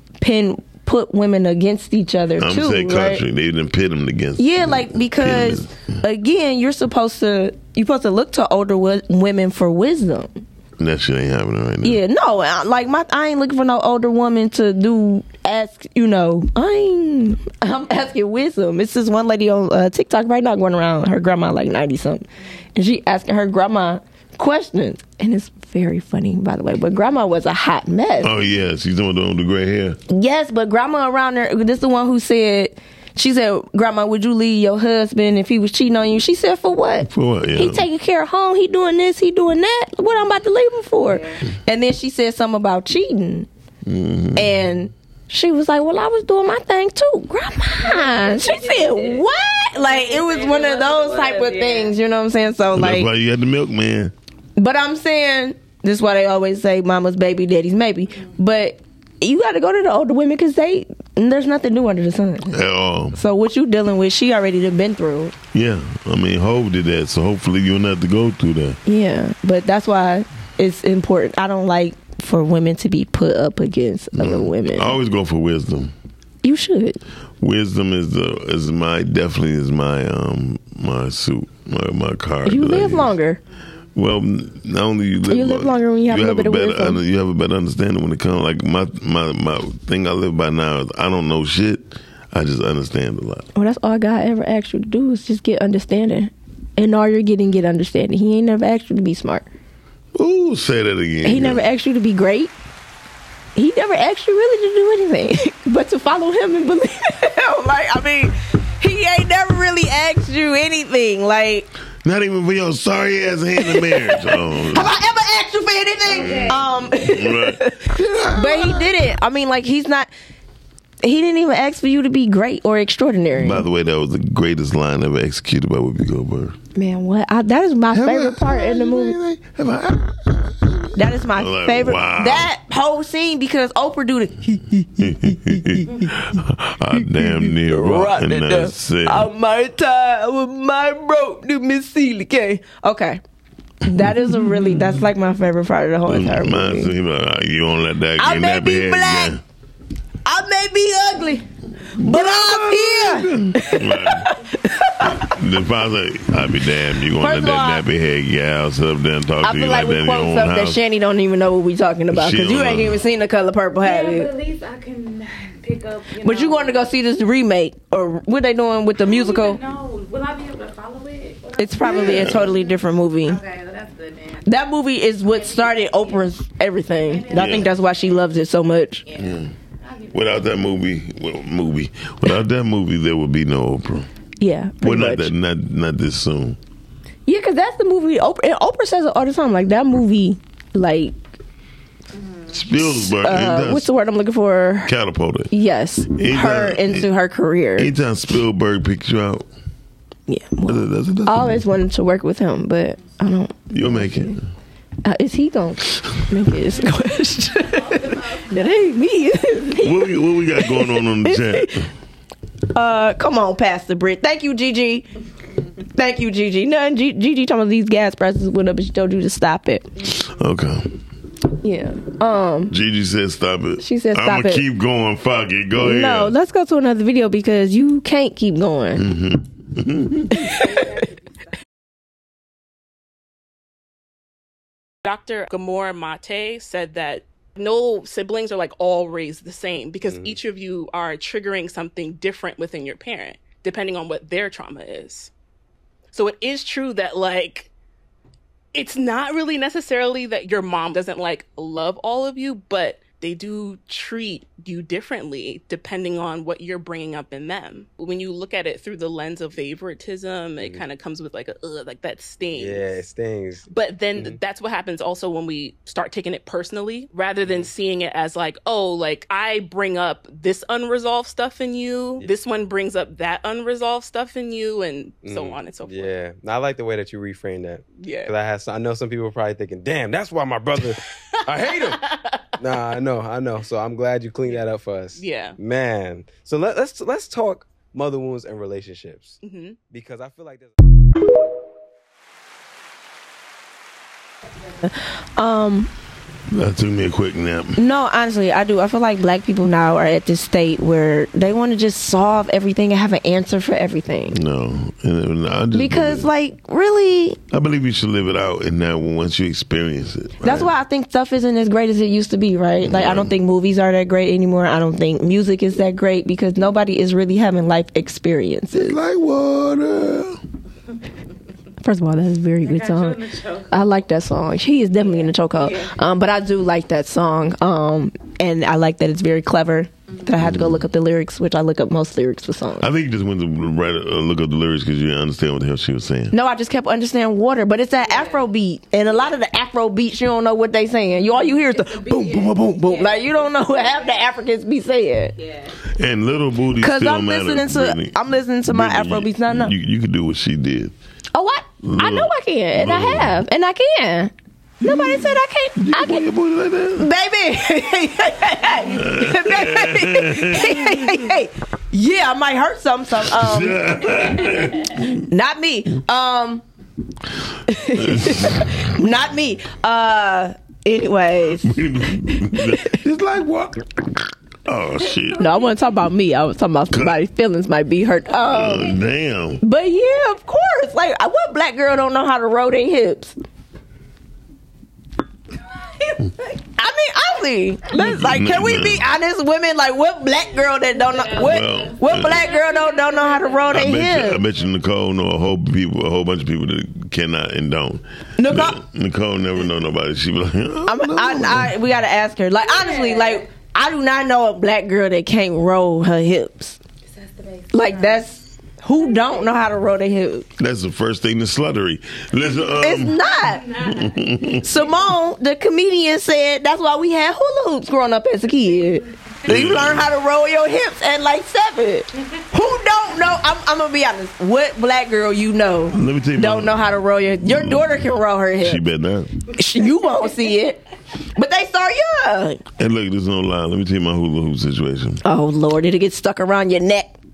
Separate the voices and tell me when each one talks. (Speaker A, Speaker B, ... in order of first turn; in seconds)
Speaker A: 0.2-3.2, 4.4-10.4, 11.8-28.3, 30.1-43.5, 44.4-53.1, 54.6-62.5, 63.1-65.3, 68.8-74.9, 76.4-77.0, 82.4-83.4, 85.3-87.0, 93.5-99.5, 101.2-102.5, 103.5-111.7, 113.6-120.1, 121.0-123.6, 126.7-129.2, 130.9-136.1, 136.9-143.2, 143.8-146.9, 148.2-149.3, 150.2-151.4, 152.0-155.3, 157.2-157.8, 159.4-164.3, 166.2-169.6, 171.6-173.4, 174.4-179.0, 184.4-185.3, 187.2-191.2, 192.8-194.9, 195.5-197.9, 200.3-204.3, 205.0-211.7, 212.7-215.1, 215.9-219.9, 221.6-222.7, 223.8-224.6, 225.8-229.1, 230.3-230.8, 294.8-295.9, 297.8-304.4, 305.7-307.4, 310.4-319.0, 321.8-323.2, 323.7-332.9, 336.3-345.4, 346.8-349.7, 351.3-354.3, 354.8-356.2, 357.0-363.8, 365.2-366.6, 367.7-372.9, 375.4-379.0, 379.6-383.3, 386.8-394.4, 398.4-398.8, 400.9-406.8, 407.7-410.5, 412.8-413.7, 414.5-428.8, 429.5-430.8, 431.3-432.6, 435.2-437.1
Speaker B: 2.4-6.0, 10.8-12.0, 28.2-30.0, 37.1-37.8, 43.8-44.6, 52.7-54.1, 62.5-63.2, 65.5-68.8, 74.2-75.9, 77.4-83.1, 84.0-93.5, 100.1-101.6, 112.0-114.9, 116.2-118.9, 123.3-126.5, 127.9-132.5, 135.0-139.3, 146.1-149.4, 152.0-154.3, 155.2-160.8, 162.1-163.0, 171.9-172.5, 177.3-177.7, 179.2-179.5, 180.1-184.1, 184.8-186.6, 192.5-193.9, 194.8-195.5, 196.1-197.1, 197.8-199.5, 200.7-201.6, 203.7-204.4, 209.8-211.9, 220.0-221.0, 222.7-226.3, 228.9-230.5, 296.5-297.8, 304.3-306.3, 307.5-310.7, 312.8-313.3, 318.7-320.4, 330.4-330.8, 332.8-336.3, 345.9-350.9, 351.8-353.4, 354.8-357.1, 358.8-361.3, 363.2-365.2, 367.9-368.9, 371.6-374.1, 374.6-375.5, 376.9-377.2, 378.4-379.6, 387.9-389.1, 391.4-392.4, 393.7-401.7, 410.6-413.2, 413.8-414.6, 419.4-420.1, 425.9-426.9, 427.4-429.4, 432.8-435.2
Speaker C: 41.0-41.4, 47.8-51.9, 116.1-116.6, 163.8-166.9, 169.0-174.4, 175.3-176.3, 177.0-177.8, 179.1-180.4, 192.2-192.5, 207.8-208.7, 230.6-231.1, 322.6-323.9, 325.0-325.9, 338.1-338.4, 341.5-344.3, 345.4-345.7, 390.9-393.6, 402.6-403.4, 407.1-408.2, 409.0-409.5, 413.3-414.2
Speaker D: 235.0-245.3, 246.1-247.7, 248.7-263.0, 263.7-276.1, 278.0-278.3, 282.1-282.4, 285.1-285.6, 289.4-289.8
Speaker E: 240.0-240.4, 260.6-260.8, 262.5-264.4, 267.4-267.7, 275.2-282.1, 282.6-289.4, 289.9-290.7